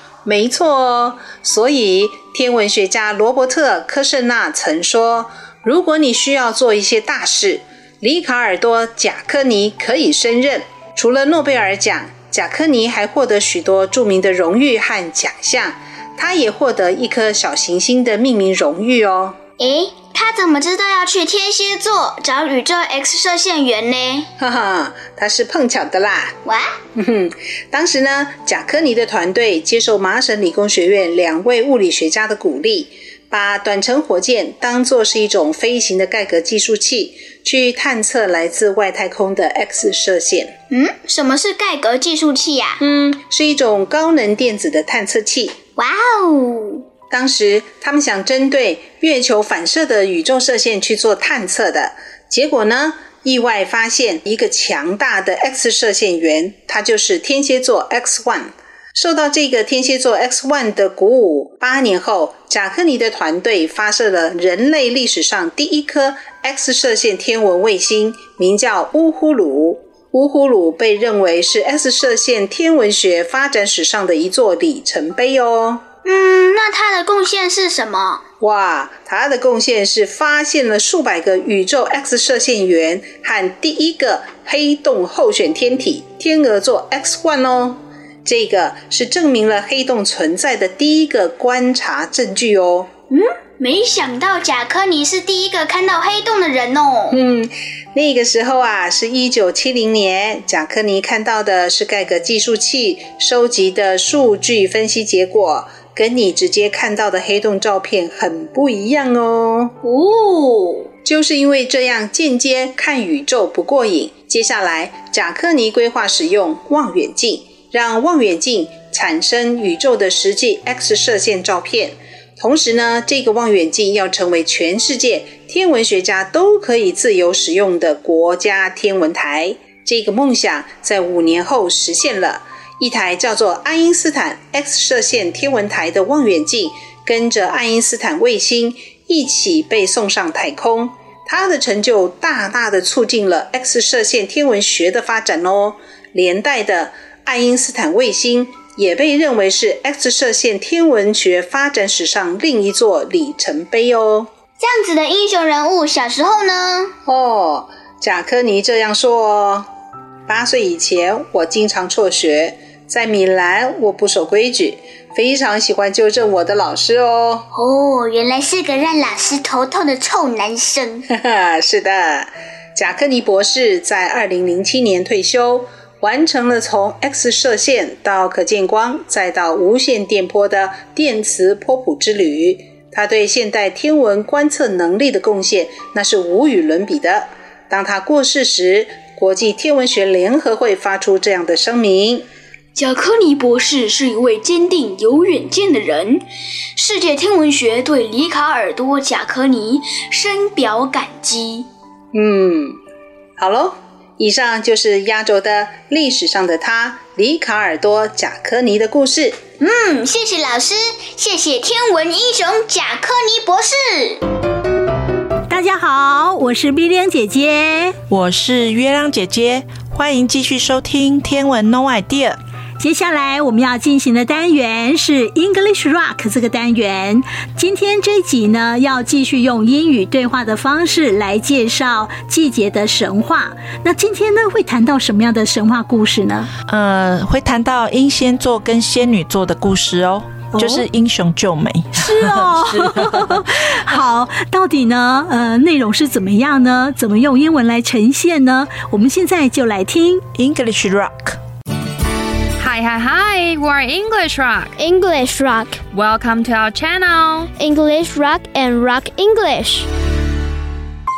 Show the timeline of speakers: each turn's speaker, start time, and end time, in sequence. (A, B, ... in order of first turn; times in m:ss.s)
0:00.2-0:19.4 A
0:19.6-0:24.3 B
0:24.4-0:26.3 A
0:26.4-0:26.7 B
0:26.9-0:40.6 A
0:40.7-0:42.8 B
0:42.8-0:45.6 A
0:45.8-0:46.8 B
0:47.1-1:15.8 A
1:16.0-1:18.2 B
1:18.4-1:32.9 A
1:33.1-1:37.1 B
1:37.1-1:49.8 A
1:49.8-1:50.5 B
1:51.0-2:34.3 A
2:34.6-2:36.9 B
2:37.0-2:39.7 A
2:40.3-2:47.4 A
2:47.5-2:51.0 B
2:51.1-3:12.2 A
3:12.8-3:16.2 C
3:16.8-3:21.7 C
3:22.1-3:22.8 A
3:23.4-3:29.4 A
3:29.6-3:34.2 B
3:35.5-3:38.0 D
3:38.1-3:42.4 E
3:42.8-3:56.5 D
3:56.7-4:03.4 E
4:00.5-4:00.8 D
4:01.9-4:10.2 D
4:10.3-4:11.4 E
4:12.6-4:14.7 F
4:14.8-4:15.8 G
4:15.9-4:17.5 F
4:17.6-4:19.9 G